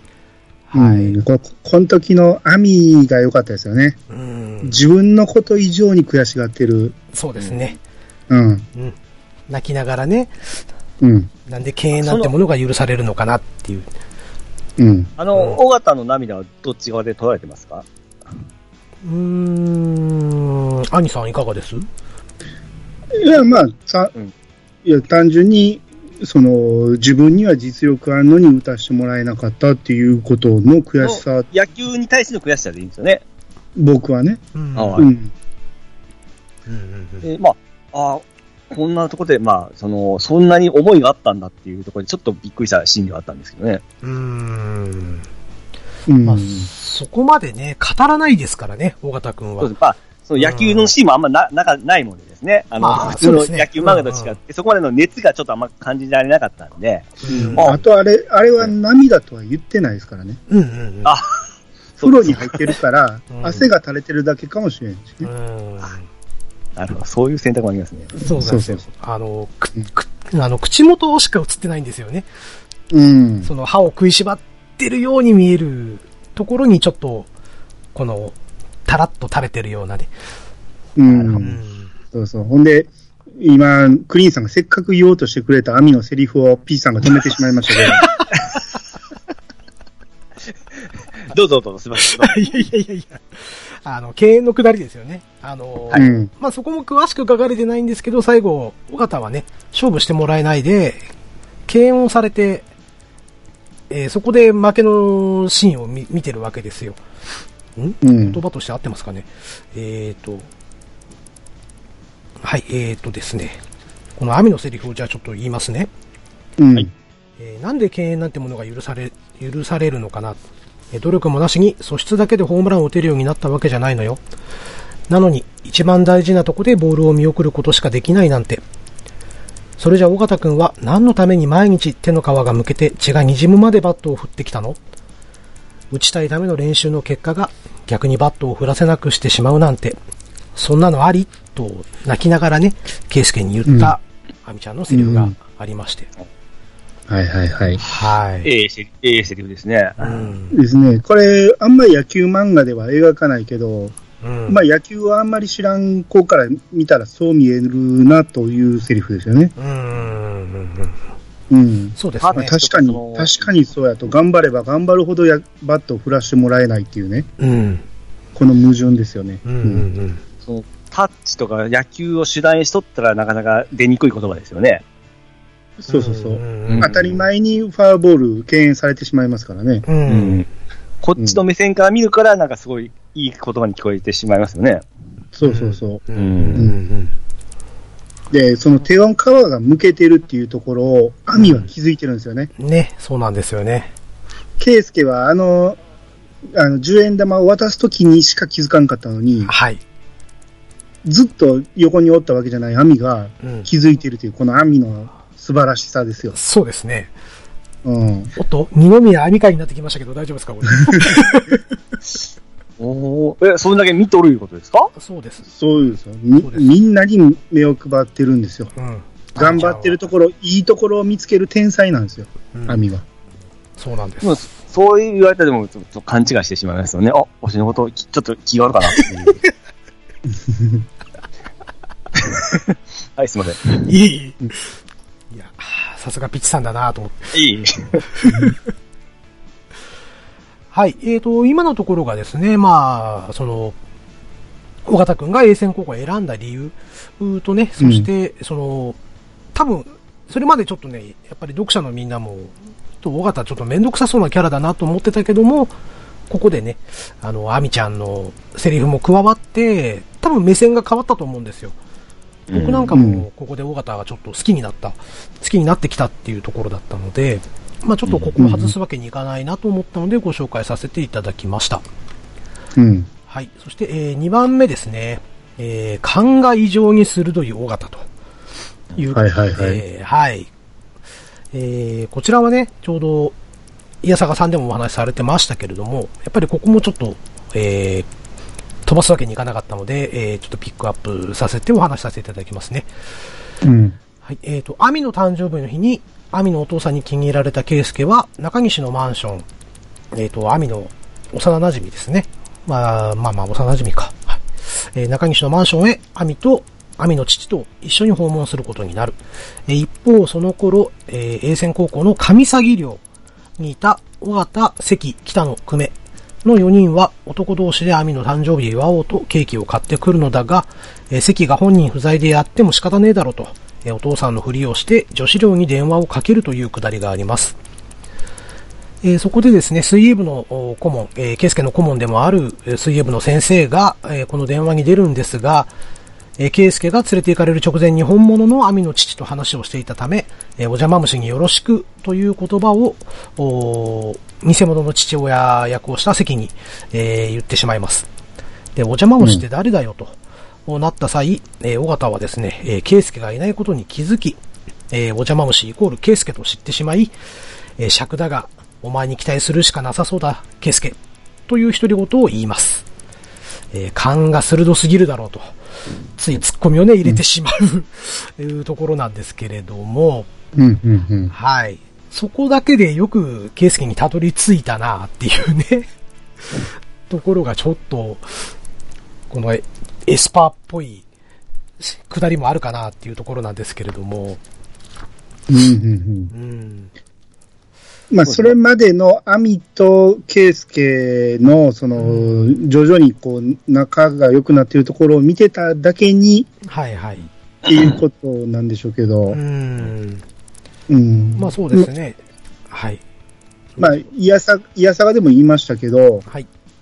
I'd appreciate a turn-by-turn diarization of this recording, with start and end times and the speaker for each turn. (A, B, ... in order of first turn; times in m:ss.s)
0:00.7-0:01.2 A
0:00.8-0:04.0 B
0:04.1-0:04.8 A
0:04.6-0:07.0 B
0:07.1-0:07.8 A
0:08.3-0:08.7 B
0:09.5-0:10.3 A
0:11.0-0:11.3 B
0:11.5-0:13.9 A
0:12.0-0:12.3 C
0:14.8-0:15.1 B
0:15.2-0:17.9 C
0:15.4-0:15.6 A
0:19.0-0:21.9 A
0:23.2-0:24.1 B
0:24.8-0:31.5 B
0:31.0-0:33.2 C
0:33.8-0:34.4 B
0:34.5-0:35.0 A
0:34.8-0:35.1 C
0:35.0-0:35.3 B
0:36.7-0:37.3 A
0:37.2-0:43.8 C
0:44.0-0:45.3 A
0:46.1-0:46.7 B
0:46.2-0:49.7 A
0:49.6-0:57.8 C
0:50.4-0:50.9 A
0:52.8-0:54.4 A
0:57.2-0:57.8 A
0:57.3-1:00.4 B
1:00.5-1:01.2 A
1:02.0-1:02.7 C
1:02.0-1:05.3 B
1:03.3-1:03.7 A
1:05.2-1:06.0 A
1:06.8-1:08.2 C
1:08.2-1:12.3 A
1:08.4-1:08.8 B
1:12.9-1:13.5 B
1:13.4-1:17.3 A
1:17.9-1:20.1 A
1:21.0-1:21.6 B
1:21.4-1:21.9 A
1:22.1-1:28.1 B
1:31.3-1:32.4 C
1:32.0-1:41.0 A
1:36.0-1:36.3 B
1:41.7-1:42.7 A
1:43.9-1:47.0 A
1:47.8-1:50.5 A
1:48.0-1:48.4 B
1:52.4-1:53.6 A
1:54.2-1:55.9 A
1:56.6-1:56.9 B
1:57.4-2:00.4 A
2:00.9-2:04.2 A
2:05.1-2:08.6 A
2:09.8-2:14.8 A
2:15.9-2:20.0 A
2:20.6-2:26.1 A
2:23.7-2:24.0 B
2:24.9-2:25.3 B
2:27.1-2:27.8 B
2:27.8-2:28.5 A
2:28.4-2:30.3 C
2:30.0-2:30.6 A
2:30.5-2:34.0 B
2:34.2-2:34.6 A
2:34.5-2:39.5 B
2:39.6-2:41.0 A
2:41.5-2:47.3 B
2:42.0-2:42.6 A
2:42.2-2:43.5 C
2:47.4-2:47.8 A
2:48.4-2:49.9 B
2:49.4-2:50.2 A
2:50.4-2:54.8 C
2:55.8-2:59.9 B
2:55.9-2:57.0 A
2:56.7-2:57.2 C
2:59.9-3:00.4 A
3:00.1-3:00.4 C
3:01.0-3:04.8 C
3:05.4-3:06.0 B
3:05.4-3:07.1 A
3:06.2-3:06.7 C
3:08.3-3:12.5 B
3:11.4-3:11.6 A
3:12.6-3:13.9 A
3:14.6-3:15.8 B
3:16.5-3:19.5 B
3:19.4-3:19.8 A
3:21.0-3:26.4 B
3:23.4-3:23.7 A
3:26.3-3:27.1 A
3:27.8-3:28.3 B
3:28.4-3:31.6 A
3:32.8-3:34.9 C
3:35.0-3:35.5 A
3:35.5-3:38.7 B
3:36.4-3:36.7 A
3:38.8-3:40.0 A
3:39.4-3:43.0 B
3:42.5-3:42.8 A
3:43.8-3:44.4 A
3:44.2-3:49.4 C
3:48.9-3:49.3 A
3:50.5-3:50.8 B
3:52.2-3:53.9 C
3:53.8-3:54.7 A
3:55.3-3:57.4 A
3:57.3-3:58.0 C
3:58.1-3:58.5 A
3:58.3-3:58.5 B
4:00.7-4:03.8 A
4:04.9-4:09.0 A
4:07.8-4:08.1 B
4:09.5-4:15.7 A
4:16.3-4:21.8 A
4:22.5-4:31.8 A
4:22.5-4:22.9 C
4:22.9-4:23.2 B
4:28.4-4:28.7 B
4:32.8-4:33.1 B
4:33.3-4:38.1 A
4:39.0-4:40.5 A
4:39.1-4:39.8 B
4:41.5-4:43.4 A
4:44.0-4:48.1 A
4:48.9-4:52.9 A
4:53.6-4:54.0 B
4:54.2-4:59.5 A
5:00.1-5:13.0 A
5:13.6-5:27.6 A
5:29.0-5:35.7 A
5:36.4-5:48.1 A
5:48.8-5:54.4 A
5:54.9-5:57.1 A
5:57.8-6:01.0 A
6:01.5-6:02.8 A
6:03.7-6:05.5 A
6:06.2-6:10.3 A
6:10.6-6:11.3 B
6:11.3-6:15.9 A
6:17.1-6:18.5 A
6:19.3-6:21.1 A
6:21.8-6:24.4 A
6:25.5-6:26.3 B
6:26.3-6:26.9 A
6:28.1-6:36.5 B
6:28.3-6:28.5 C
6:32.0-6:32.6 A
6:36.6-6:37.3 A
6:37.6-6:39.4 B
6:39.3-6:40.2 A
6:40.9-6:41.9 B
6:41.4-6:42.2 A
6:42.7-6:43.0 A
6:43.8-6:46.3 B